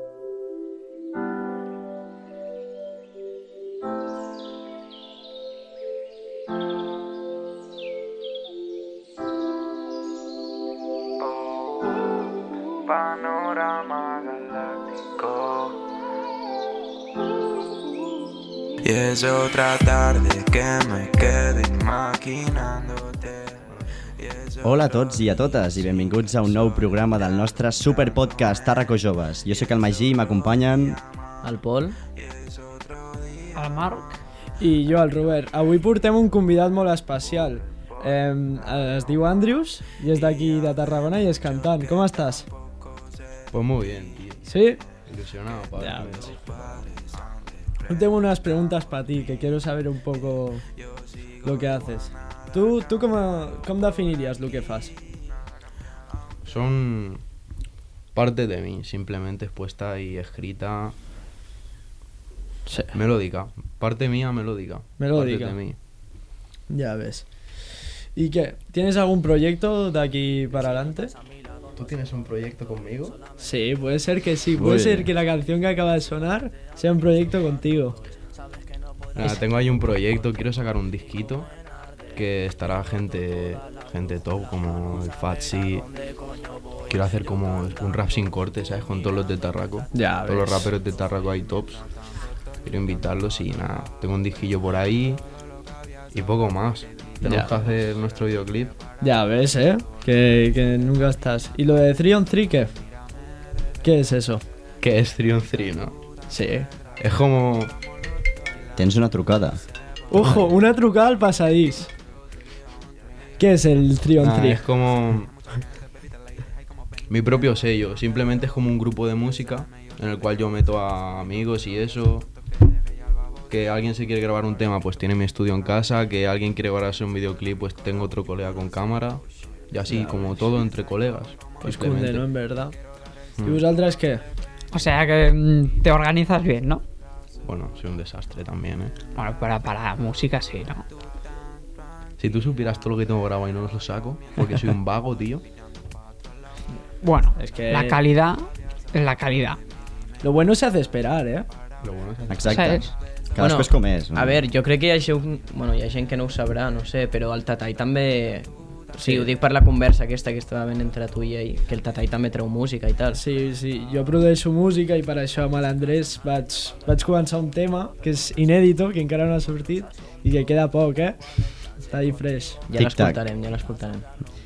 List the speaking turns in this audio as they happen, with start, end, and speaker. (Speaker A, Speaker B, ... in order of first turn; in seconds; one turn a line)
Speaker A: 19.7-22.2
Speaker B: 20.4-21.1
Speaker B: 22.3-22.6
Speaker B: 23.6-24.5
Speaker C: 24.6-31.0
Speaker D: 31.4-32.0
Speaker E: 33.5-34.2
Speaker F: 34.6-42.5
Speaker B: 43.5-47.0
Speaker F: 44.4-44.9
Speaker F: 45.7-46.4
Speaker F: 47.9-50.6
Speaker F: 51.4-55.0
Speaker B: 56.4-57.2
Speaker B: 58.1-61.0
Speaker F: 62.7-63.0
Speaker B: 62.9-65.8
Speaker F: 65.0-65.6
Speaker F: 66.7-71.1
Speaker B: 71.8-73.2
Speaker F: 73.4-78.0
Speaker B: 74.6-75.0
Speaker B: 79.1-81.5
Speaker B: 82.1-85.9
Speaker B: 86.9-91.8
Speaker F: 89.9-90.7
Speaker B: 92.6-95.2
Speaker B: 96.1-98.8
Speaker F: 97.2-97.5
Speaker F: 99.0-102.7
Speaker F: 103.8-104.4
Speaker B: 104.8-106.0
Speaker F: 106.3-106.7
Speaker B: 107.0-107.7
Speaker C: 108.8-109.6
Speaker F: 110.1-111.9
Speaker B: 110.1-110.5
Speaker F: 113.4-114.7
Speaker B: 114.2-115.5
Speaker B: 117.1-122.3
Speaker B: 123.5-132.2
Speaker F: 129.8-130.5
Speaker F: 131.6-132.7
Speaker B: 133.3-133.6
Speaker F: 133.4-134.2
Speaker E: 134.7-136.8
Speaker B: 137.4-138.9
Speaker E: 139.1-140.8
Speaker B: 142.2-145.4
Speaker E: 147.0-149.6
Speaker F: 147.4-148.0
Speaker F: 150.2-151.5
Speaker B: 151.8-152.9
Speaker C: 152.3-154.4
Speaker E: 152.4-152.9
Speaker D: 153.4-163.2
Speaker F: 163.1-171.2
Speaker F: 171.8-172.6
Speaker D: 172.7-174.1
Speaker C: 172.7-173.2